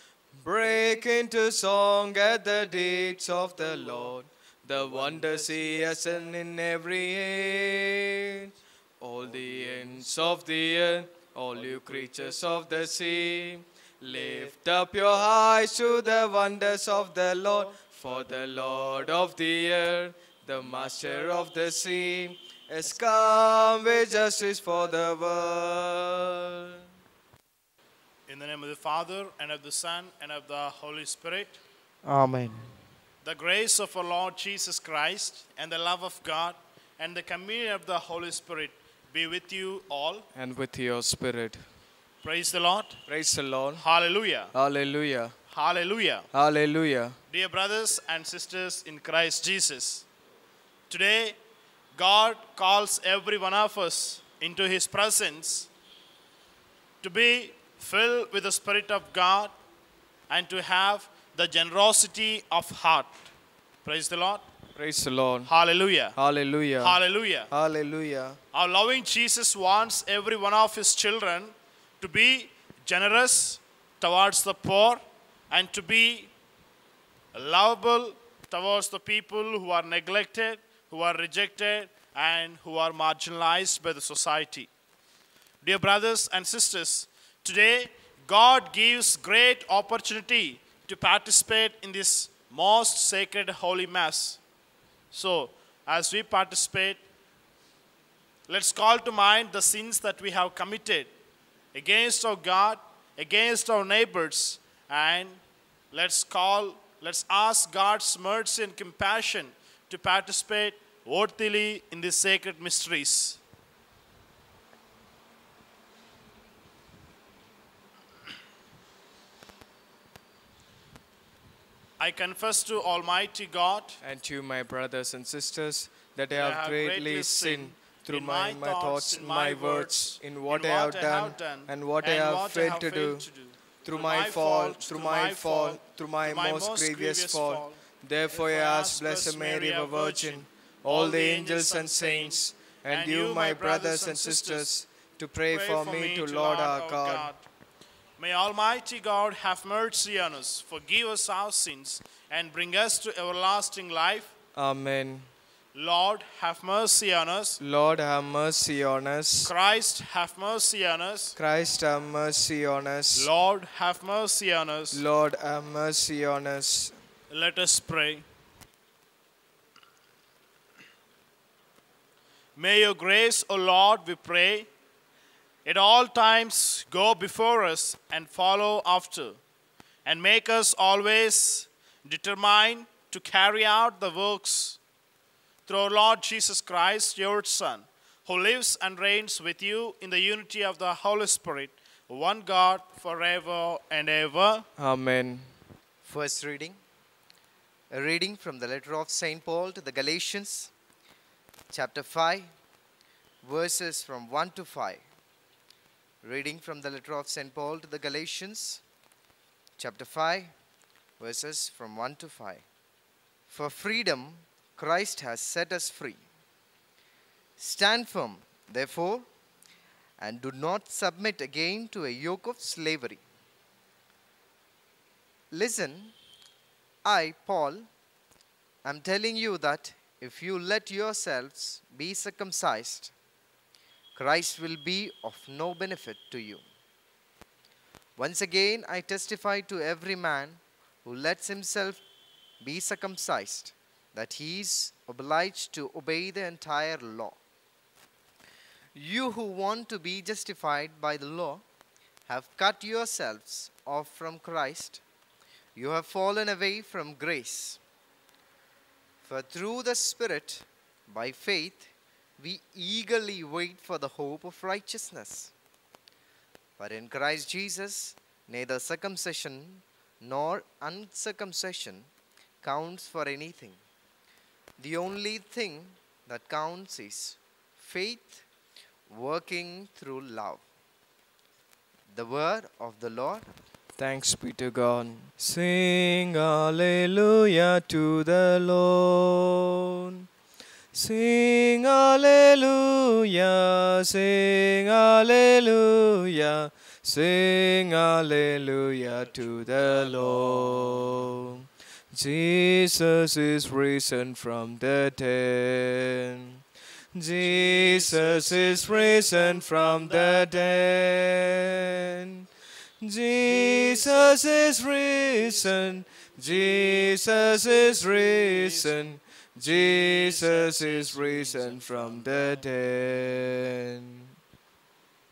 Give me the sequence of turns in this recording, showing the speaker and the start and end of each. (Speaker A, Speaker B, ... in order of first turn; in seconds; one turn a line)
Speaker A: 0.4-26.8
Speaker B: 28.3-31.6
Speaker C: 32.0-32.7
Speaker B: 33.2-40.3
Speaker A: 40.4-41.7
Speaker B: 42.2-43.0
Speaker A: 43.1-43.8
Speaker B: 43.8-44.5
Speaker A: 44.5-45.4
Speaker B: 45.5-46.3
Speaker A: 46.3-47.2
Speaker B: 47.3-50.0
Speaker B: 50.9-51.4
Speaker B: 52.0-55.7
Speaker B: 57.0-59.5
Speaker B: 60.3-63.2
Speaker B: 63.9-64.4
Speaker A: 64.8-65.5
Speaker B: 65.5-66.2
Speaker A: 66.2-67.0
Speaker B: 66.8-67.5
Speaker A: 67.5-68.4
Speaker B: 68.5-76.3
Speaker B: 77.3-84.7
Speaker B: 85.6-94.4
Speaker B: 95.1-97.0
Speaker B: 98.5-101.1
Speaker B: 101.7-105.4
Speaker B: 105.9-113.4
Speaker B: 122.0-124.0
Speaker A: 124.0-133.2
Speaker B: 126.3-137.8
Speaker A: 133.8-147.3
Speaker B: 138.3-144.7
Speaker B: 145.5-147.4
Speaker B: 148.2-154.3
Speaker A: 154.6-155.3
Speaker B: 155.8-157.6
Speaker A: 157.6-159.5
Speaker B: 159.4-161.4
Speaker A: 161.4-163.3
Speaker B: 163.2-165.0
Speaker A: 164.9-167.0
Speaker B: 167.3-168.2
Speaker B: 172.6-174.7
Speaker B: 175.7-179.4
Speaker B: 180.1-184.8
Speaker B: 185.7-194.7
Speaker A: 194.8-195.5
Speaker C: 196.0-196.8
Speaker C: 197.9-200.7
Speaker C: 201.7-202.5
Speaker C: 203.4-205.0
Speaker C: 206.2-208.8
Speaker C: 209.8-210.5
Speaker C: 211.2-212.7
Speaker C: 213.5-216.2
Speaker C: 217.6-219.3
Speaker C: 220.2-223.2
Speaker C: 225.5-226.2
Speaker C: 227.0-227.9
Speaker C: 228.8-233.1
Speaker C: 234.2-236.6
Speaker C: 238.2-242.0
Speaker C: 242.6-247.4
Speaker C: 248.9-251.6
Speaker C: 252.3-255.0
Speaker C: 255.8-257.8
Speaker C: 259.2-265.5
Speaker C: 266.8-272.1
Speaker C: 272.6-273.8
Speaker C: 274.8-278.4
Speaker C: 279.1-280.6
Speaker C: 282.1-283.5
Speaker A: 284.0-290.2
Speaker A: 290.9-306.6
Speaker B: 299.9-301.1
Speaker A: 307.1-312.4
Speaker B: 307.4-310.5
Speaker A: 313.0-324.3
Speaker B: 313.4-314.4
Speaker B: 316.5-318.9
Speaker B: 319.7-322.5